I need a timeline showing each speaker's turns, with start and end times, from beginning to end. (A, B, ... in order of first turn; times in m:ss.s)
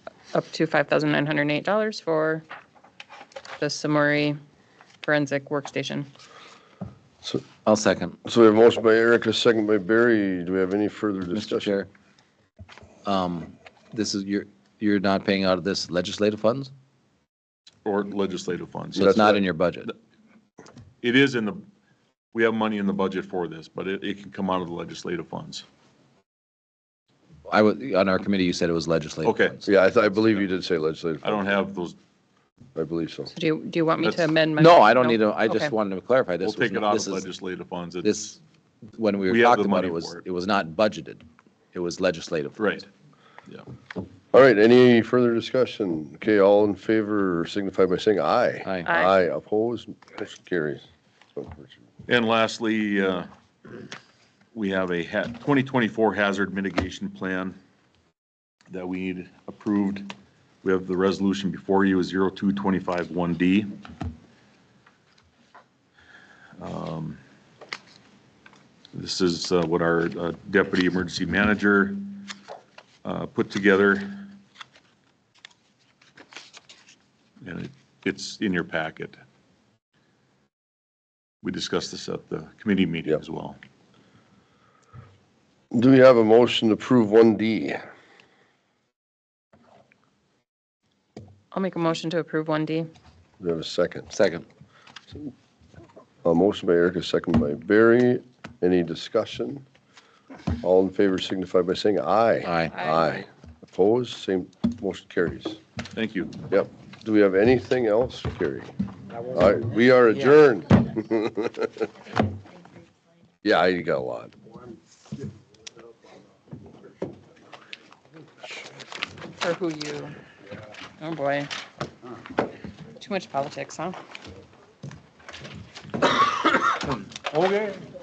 0:00.3-0:02.4 A
0:03.6-0:04.4 A
0:05.0-0:06.1 A
0:07.6-0:08.2 B
0:08.2-0:11.8 C
0:11.3-0:11.9 B
0:13.0-0:16.7 B
0:17.8-0:19.3 D
0:19.0-0:19.9 B
0:19.0-0:19.4 C
0:21.0-0:21.7 D
0:22.3-0:25.6 D
0:27.5-0:29.7 B
0:29.2-0:29.6 D
0:29.7-0:31.6 C
0:31.2-0:32.0 D
0:32.8-0:33.3 C
0:33.3-0:35.7 A
0:34.6-0:37.3 B
0:36.4-0:38.4 D
0:38.0-0:38.4 B
0:38.9-0:42.6 B
0:39.3-0:40.2 D
0:42.6-0:42.9 D
0:44.3-0:50.8 C
0:48.9-0:49.1 A
0:51.4-0:51.7 C
0:52.1-0:53.3 D
0:54.5-0:57.6 D
0:58.7-1:03.8 D
1:06.6-1:07.2 D
1:08.9-1:12.3 D
1:13.0-1:14.4 D
1:17.4-1:19.2 D
1:21.4-1:23.6 D
1:25.7-1:27.8 C
1:31.5-1:32.9 A
1:33.4-1:34.1 C
1:34.1-1:34.4 B
1:36.2-1:39.6 C
1:40.6-1:45.6 C
1:42.4-1:42.7 B
1:42.7-1:43.2 A
1:46.0-1:46.4 D
1:46.5-1:48.7 C
1:49.2-1:51.9 C
1:53.4-1:54.3 C
1:59.3-2:00.2 A
2:01.0-2:01.5 A
2:03.0-2:04.0 A